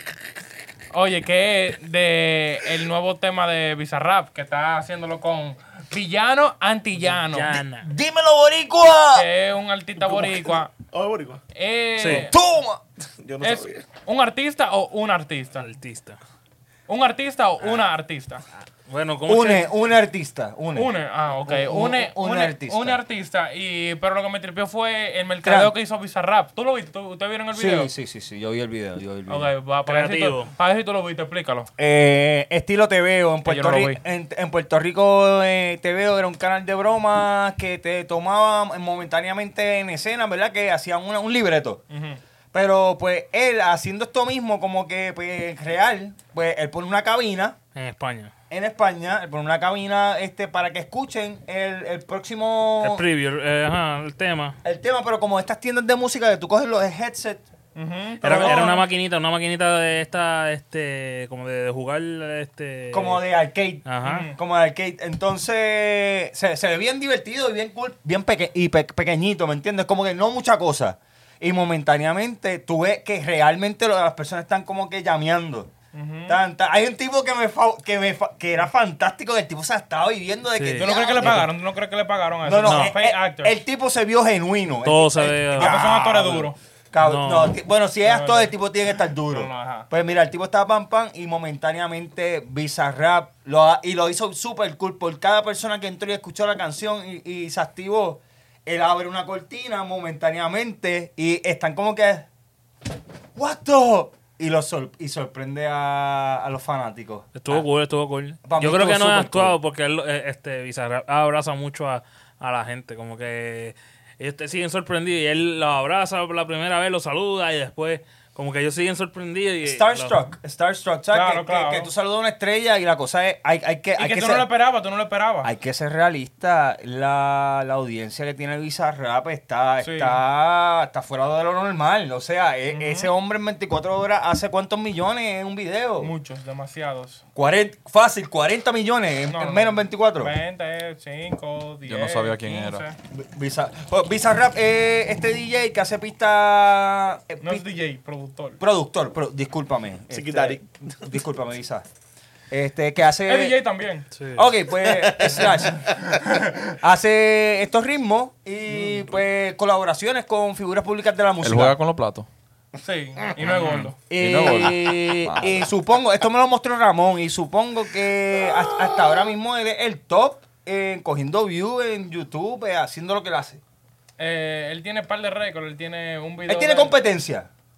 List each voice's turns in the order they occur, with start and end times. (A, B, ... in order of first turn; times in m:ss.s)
0:00.9-0:07.6 A
0:07.1-0:07.9 B
0:07.8-0:09.3 C
0:09.1-0:10.7 A
0:10.0-0:11.4 D
0:11.5-0:12.3 A
0:12.0-0:12.3 B
0:12.0-0:12.8 C
0:13.2-0:13.8 D
0:13.4-0:15.7 A
0:15.6-0:16.2 B
0:16.9-0:18.4 A
0:18.9-0:19.7 B
0:19.3-0:20.9 C
0:20.8-0:27.9 A
0:21.5-0:23.0 C
0:25.4-0:25.7 C
0:27.5-0:29.5 C
0:29.3-0:31.7 A
0:29.9-0:30.5 B
0:31.8-0:41.8 C
0:33.5-0:34.0 A
0:41.9-0:42.2 A
0:42.5-0:47.6 C
0:47.8-0:48.3 B
0:48.5-0:53.0 C
0:52.8-0:54.6 B
0:54.6-0:57.4 C
0:57.8-0:58.9 A
0:58.2-0:58.8 C
0:58.2-1:03.2 B
1:02.9-1:15.7 C
1:03.9-1:04.3 B
1:04.0-1:04.4 A
1:15.9-1:16.4 A
1:16.3-1:21.5 C
1:20.6-1:20.9 B
1:20.8-1:23.5 A
1:22.5-1:42.3 C
1:22.6-1:23.0 B
1:24.8-1:25.9 B
1:25.6-1:26.6 A
1:27.0-1:27.6 B
1:28.0-1:28.5 A
1:29.3-1:29.9 A
1:43.4-1:47.7 C
1:47.3-2:00.2 B
1:48.4-1:49.6 C
1:59.6-2:04.5 C
2:01.1-2:01.9 A
2:04.0-2:05.5 A
2:05.4-2:16.1 C
2:09.8-2:10.2 A
2:12.7-2:13.1 A
2:16.0-2:17.2 A
2:17.4-2:20.3 C
2:19.3-2:23.0 A
2:21.9-2:22.8 E
2:23.1-2:27.6 C
2:27.4-2:28.6 A
2:28.6-2:31.8 C
2:30.1-2:30.7 D
2:32.5-2:33.6 C
2:33.3-2:34.1 A
2:34.2-2:34.5 B
2:34.4-2:35.9 C
2:35.0-2:35.8 D
2:36.8-2:41.8 C
2:38.7-2:39.0 D
2:41.4-2:42.3 E
2:42.8-2:44.0 A
2:43.4-2:45.6 E
2:44.1-2:53.6 C
2:54.2-2:57.0 A
2:56.5-2:57.5 C